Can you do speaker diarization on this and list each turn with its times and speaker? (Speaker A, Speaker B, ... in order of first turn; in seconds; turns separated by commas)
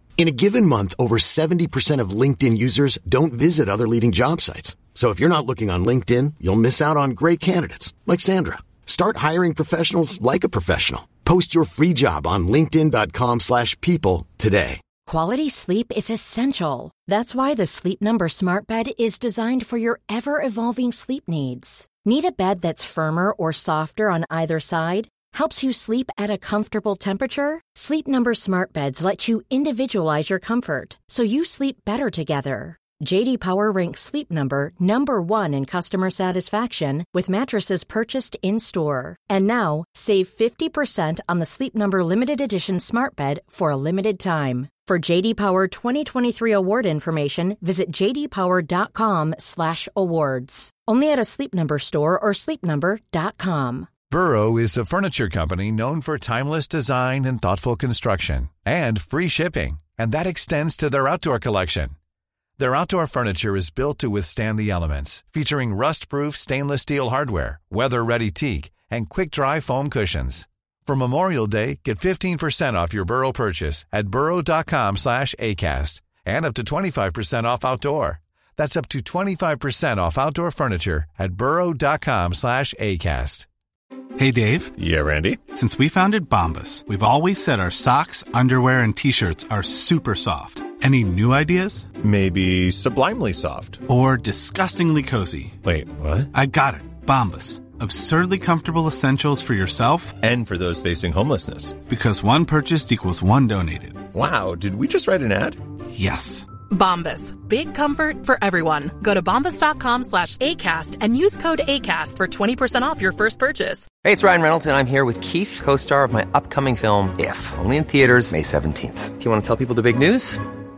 Speaker A: 0.2-14.8, Speaker B: 15.1-53.9, Speaker C: 54.1-62.0, Speaker C: 62.6-83.5, Speaker D: 84.2-84.7, Speaker E: 84.8-85.5, Speaker D: 85.5-91.9, Speaker E: 92.0-93.8, Speaker D: 93.9-95.6, Speaker E: 95.6-96.3, Speaker D: 96.3-100.2, Speaker E: 100.2-101.8, Speaker D: 101.9-104.0, Speaker E: 104.1-105.6, Speaker D: 105.9-106.5, Speaker F: 106.7-113.9, Speaker G: 114.0-120.4